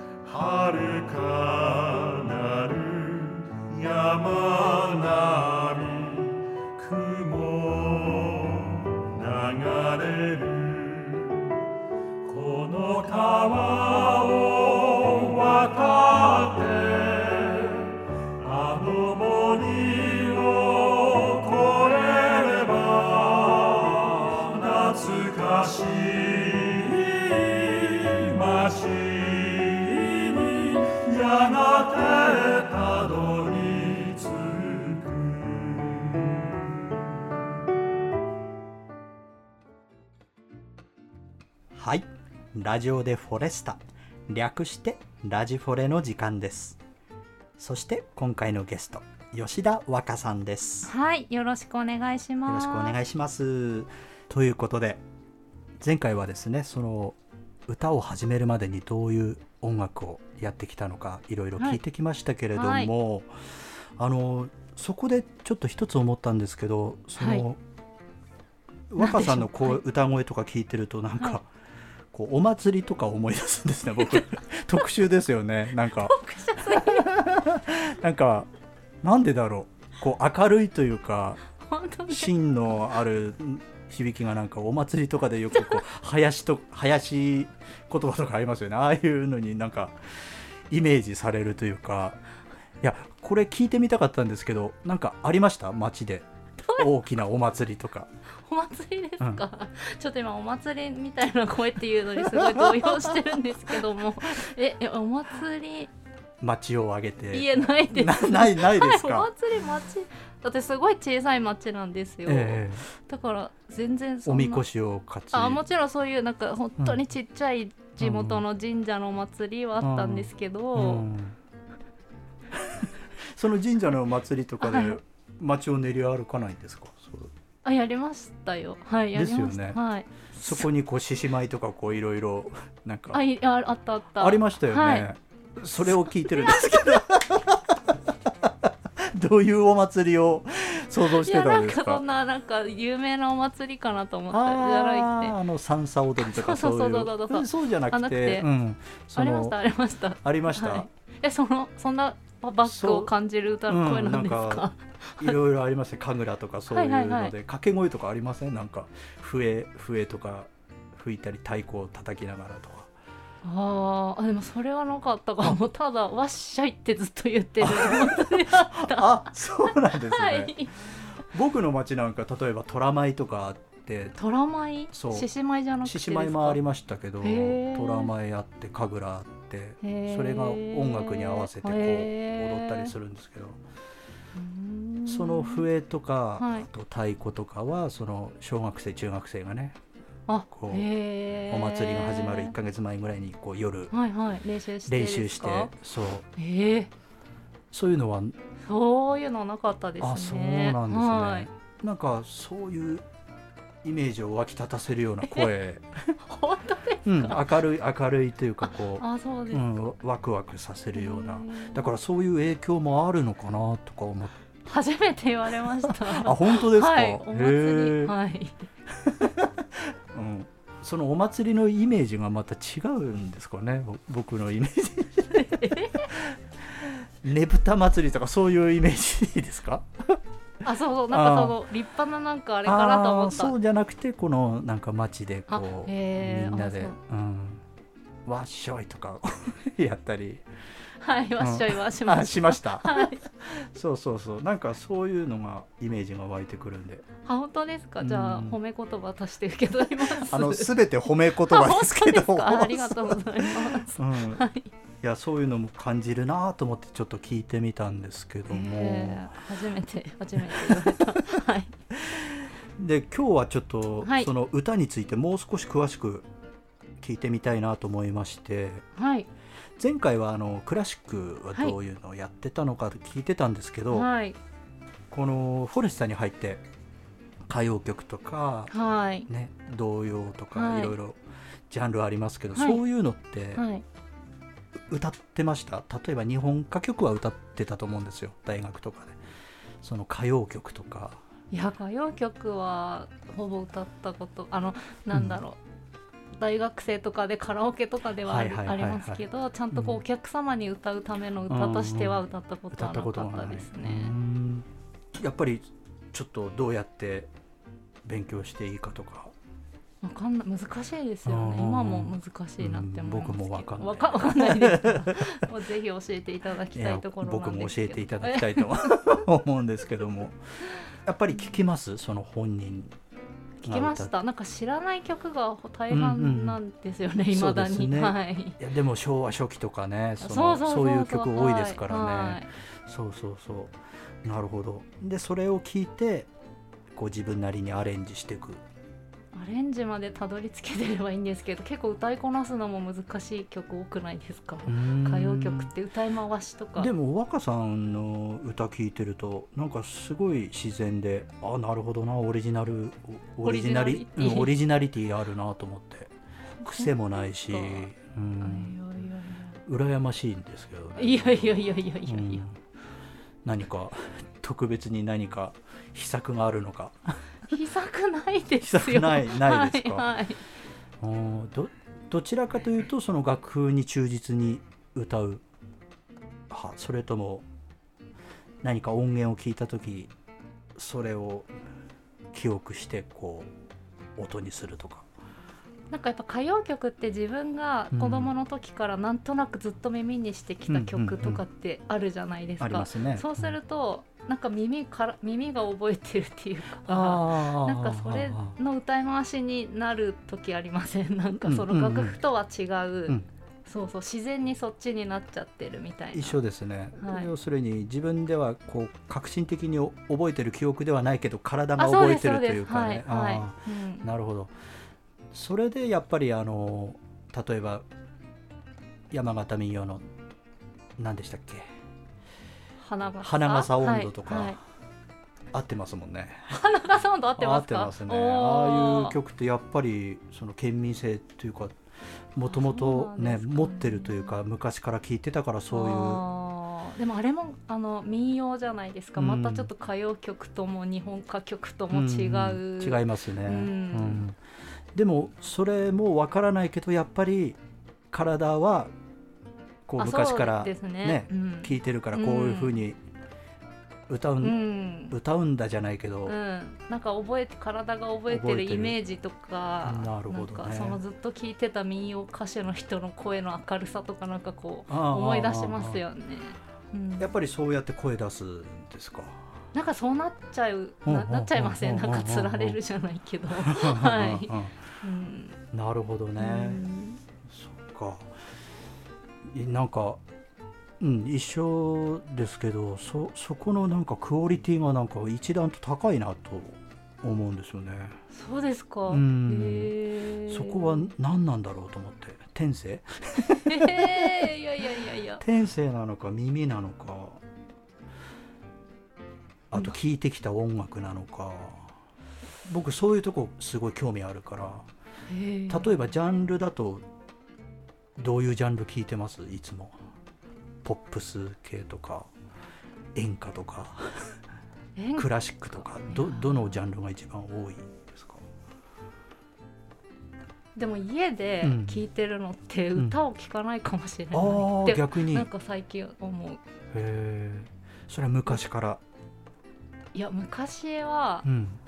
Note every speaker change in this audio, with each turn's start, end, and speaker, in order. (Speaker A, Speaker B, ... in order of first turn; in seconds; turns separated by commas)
Speaker A: 0.2-11.5, Speaker A: 12.2-36.6, Speaker B: 41.7-46.8, Speaker B: 47.6-50.9, Speaker C: 50.9-53.0, Speaker B: 52.4-55.0, Speaker B: 55.8-57.2, Speaker B: 57.7-67.6, Speaker C: 62.5-62.9, Speaker C: 67.2-67.4, Speaker B: 68.9-71.5, Speaker C: 69.0-69.8, Speaker B: 72.1-78.5, Speaker C: 75.9-77.2, Speaker B: 79.0-81.4, Speaker C: 81.5-82.3, Speaker B: 82.1-89.9, Speaker C: 85.5-85.8, Speaker B: 90.7-92.2, Speaker B: 92.8-98.1, Speaker C: 98.4-105.9, Speaker B: 102.5-103.0, Speaker B: 106.4-109.3, Speaker C: 107.3-114.6, Speaker B: 112.2-112.8, Speaker B: 114.2-115.6, Speaker C: 115.3-121.0, Speaker B: 118.0-118.4, Speaker B: 119.8-121.4, Speaker B: 122.5-127.3, Speaker C: 124.6-125.0, Speaker C: 127.6-130.7, Speaker B: 129.1-129.8, Speaker B: 130.3-133.2, Speaker C: 133.1-135.1, Speaker B: 134.2-137.7, Speaker C: 135.9-137.0, Speaker B: 138.3-142.0, Speaker C: 141.0-145.3, Speaker B: 144.3-149.6, Speaker C: 146.2-148.5, Speaker C: 149.2-155.3, Speaker B: 150.2-150.9, Speaker B: 152.6-153.1, Speaker B: 153.7-154.7, Speaker B: 155.2-162.9, Speaker C: 156.7-157.3, Speaker C: 163.4-170.7, Speaker B: 167.6-170.6, Speaker B: 171.2-174.2, Speaker C: 174.2-176.6, Speaker B: 174.9-175.3, Speaker B: 175.8-183.6, Speaker C: 177.2-178.1, Speaker C: 179.8-182.9, Speaker C: 184.3-185.7, Speaker B: 185.1-189.8, Speaker C: 186.4-186.7, Speaker C: 190.3-192.5, Speaker B: 190.5-190.9, Speaker B: 191.5-193.9, Speaker C: 193.9-195.7, Speaker B: 194.8-196.3, Speaker C: 196.3-196.9, Speaker B: 197.7-198.3, Speaker C: 198.6-201.5, Speaker B: 200.0-203.1, Speaker B: 203.8-206.1, Speaker C: 206.2-207.6, Speaker B: 207.0-214.3, Speaker C: 208.7-209.7, Speaker C: 210.9-211.9, Speaker C: 214.6-218.6, Speaker B: 215.8-218.1, Speaker B: 219.0-230.2, Speaker C: 225.3-226.1, Speaker C: 230.6-233.5, Speaker B: 231.1-231.6, Speaker B: 232.6-237.6, Speaker C: 235.5-236.9, Speaker B: 238.2-240.4, Speaker C: 241.0-243.2, Speaker B: 241.4-247.1, Speaker C: 247.2-254.7, Speaker B: 248.0-248.6, Speaker B: 250.1-254.4, Speaker B: 255.0-259.3, Speaker C: 258.5-261.8, Speaker B: 260.6-261.2, Speaker B: 262.0-266.3, Speaker C: 264.0-264.3, Speaker B: 267.0-268.8, Speaker C: 268.9-269.3, Speaker B: 269.8-274.1, Speaker C: 273.9-274.4, Speaker B: 275.1-276.6, Speaker B: 277.5-278.7, Speaker C: 278.7-279.3, Speaker B: 279.3-281.2, Speaker C: 280.5-280.9, Speaker B: 281.7-283.6, Speaker C: 282.5-282.8, Speaker C: 283.6-283.8, Speaker B: 284.9-289.2, Speaker B: 289.8-291.2, Speaker C: 291.5-295.6, Speaker B: 295.1-295.4, Speaker C: 296.4-304.1, Speaker B: 298.2-300.0, Speaker B: 301.5-302.2, Speaker B: 302.7-307.3, Speaker B: 308.0-309.3, Speaker C: 310.0-319.0, Speaker B: 311.2-315.5, Speaker B: 316.7-320.4, Speaker B: 321.0-322.9, Speaker C: 323.6-328.6, Speaker B: 323.6-324.1, Speaker B: 325.9-326.6, Speaker B: 327.3-336.3, Speaker C: 330.2-332.5, Speaker B: 336.9-338.6, Speaker C: 339.3-346.9, Speaker B: 344.7-345.7, Speaker B: 346.8-358.7, Speaker C: 353.4-354.5, Speaker C: 356.6-357.9, Speaker C: 358.4-359.6, Speaker B: 359.6-362.6, Speaker C: 361.0-362.4, Speaker B: 363.4-367.2, Speaker C: 367.5-370.4, Speaker B: 368.6-370.1, Speaker B: 371.0-375.4, Speaker B: 376.5-377.4, Speaker B: 378.6-380.1, Speaker B: 380.8-381.5, Speaker B: 382.3-383.5, Speaker B: 384.2-385.1, Speaker C: 385.9-406.4, Speaker B: 387.9-388.3, Speaker B: 390.7-391.4, Speaker B: 392.6-393.5, Speaker B: 396.9-398.6, Speaker B: 401.4-402.2, Speaker B: 406.1-414.5, Speaker C: 407.0-407.3, Speaker C: 411.8-414.1, Speaker B: 415.3-417.8, Speaker B: 419.1-420.0, Speaker B: 421.0-421.6, Speaker C: 422.8-424.6, Speaker B: 423.2-424.6, Speaker B: 425.5-426.6, Speaker C: 426.5-429.1, Speaker B: 427.4-431.8, Speaker B: 432.3-436.2, Speaker C: 432.4-434.3, Speaker C: 435.7-444.2, Speaker B: 439.1-439.7, Speaker B: 441.9-444.4, Speaker B: 444.9-447.6, Speaker B: 448.1-448.9, Speaker B: 449.9-453.0, Speaker C: 450.0-452.8, Speaker B: 454.1-456.4, Speaker C: 454.4-455.1, Speaker C: 456.2-467.3, Speaker B: 458.3-459.0, Speaker B: 459.8-461.0, Speaker B: 464.9-466.0, Speaker B: 467.2-469.4, Speaker C: 469.7-475.6, Speaker B: 471.1-472.8, Speaker B: 473.6-474.8, Speaker B: 475.7-476.8, Speaker C: 476.4-477.2, Speaker B: 477.5-478.3, Speaker B: 479.5-480.2, Speaker B: 481.0-488.2, Speaker C: 488.3-491.1, Speaker B: 489.1-489.9, Speaker B: 490.4-494.5, Speaker C: 493.6-495.4, Speaker B: 495.4-497.4, Speaker B: 499.7-501.9, Speaker B: 502.6-504.9, Speaker C: 505.3-505.9, Speaker B: 505.7-507.0, Speaker B: 508.2-509.9, Speaker B: 510.8-512.3, Speaker B: 513.1-514.3, Speaker C: 515.0-515.3, Speaker B: 515.1-518.4, Speaker C: 515.8-516.7, Speaker C: 520.7-526.6, Speaker B: 521.6-522.0, Speaker B: 524.3-525.5, Speaker B: 526.9-529.0, Speaker C: 530.1-531.5, Speaker B: 531.4-531.8